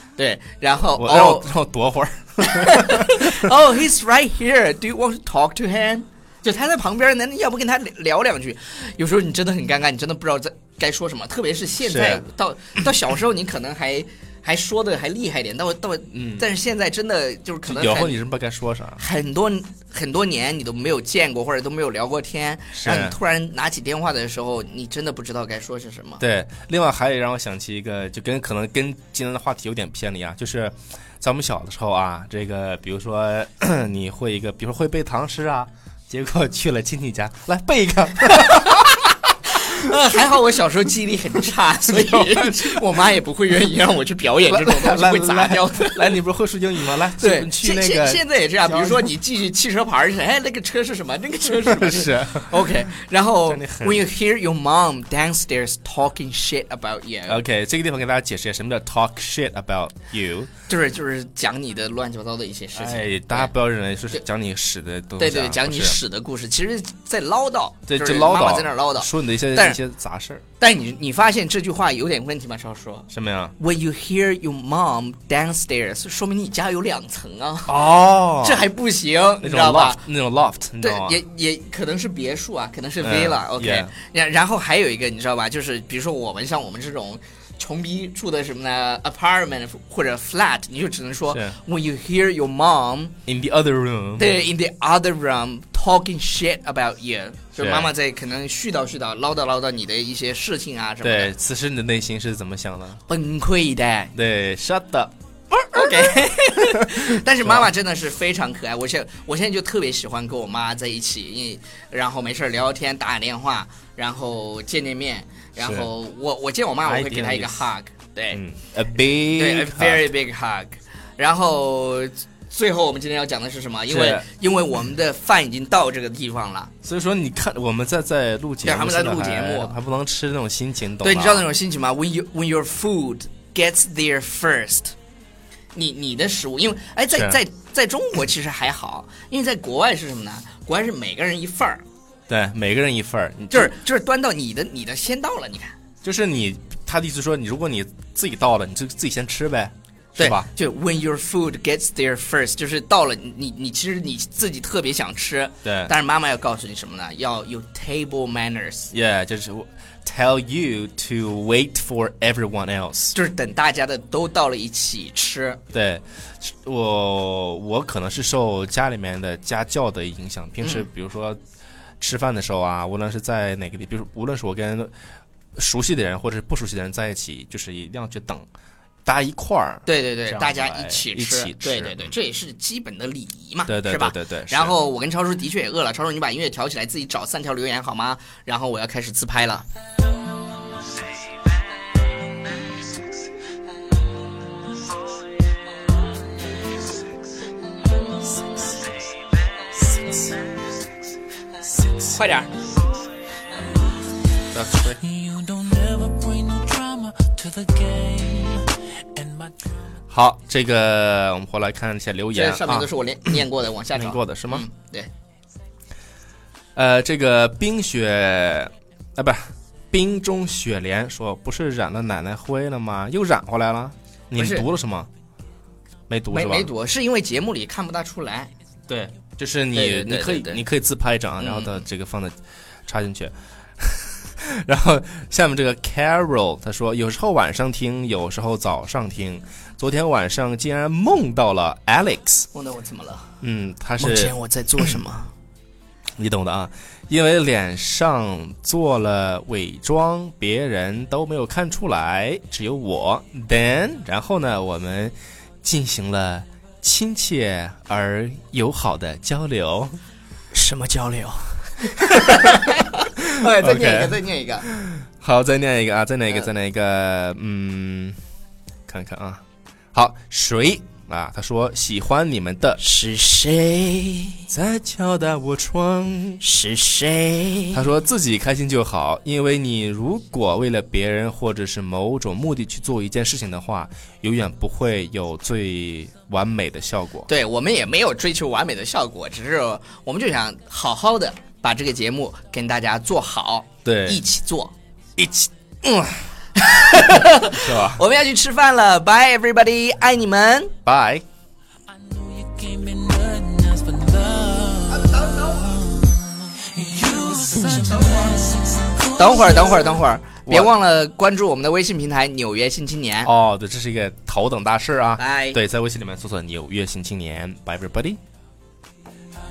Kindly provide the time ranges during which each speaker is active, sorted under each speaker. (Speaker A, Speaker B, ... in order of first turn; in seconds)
Speaker A: 0.2-1.5, 2.4-18.2, 19.0-26.2, 38.4-46.2, 47.1-57.4, 60.7-63.5, 65.2-69.8, 70.6-77.8, 78.4-80.0, 80.8-93.2, 94.2-101.3, 103.1-104.1, 105.7-118.4, 119.3-126.7, 128.6-129.8, 131.0-134.9, 135.7-141.8, 143.5-145.7, 150.2-158.9, 163.1-165.6, 170.6-170.9, 179.9-189.7, 202.1-202.5, 212.3-215.1, 224.3-224.7, 226.3-228.5, 229.7-230.6, 231.4-231.8, 242.5-243.3, 244.0-245.3, 260.5-264.7, 272.8-274.5, 276.4-277.9, 287.3-294.7, 296.6-300.7, 309.1-313.3, 315.2-315.6
Speaker B: 1.0-3.5, 11.8-12.2, 16.1-16.4, 17.7-19.0, 22.8-23.2, 26.2-38.9, 41.9-42.8, 44.5-49.1, 51.6-52.6, 53.5-54.0, 57.3-60.5, 62.7-66.0, 67.9-70.4, 73.1-73.5, 77.7-78.7, 79.4-81.2, 83.0-83.9, 91.3-91.6, 93.3-94.4, 97.6-97.9, 101.0-103.0, 104.1-106.1, 106.7-107.7, 115.6-115.9, 116.8-117.6, 118.3-120.1, 123.9-124.3, 126.8-131.5, 137.1-137.4, 142.3-143.7, 146.0-150.5, 155.7-155.9, 158.9-163.2, 165.7-171.4, 172.0-174.9, 175.6-178.5, 179.1-182.1, 183.7-184.7, 201.8-202.1, 204.5-205.1, 210.1-214.7, 216.8-225.1, 226.1-226.7, 228.9-232.3, 232.9-242.5, 243.4-244.3, 246.2-259.9, 262.1-262.7, 263.2-268.2, 268.9-269.4, 269.9-272.8, 274.5-276.4, 277.7-287.3, 293.9-294.2, 295.2-296.3, 297.2-298.0, 300.9-301.2, 310.5-310.7, 313.2-318.2
Speaker C: 205.2-209.5, 302.2-305.1, 306.0-309.1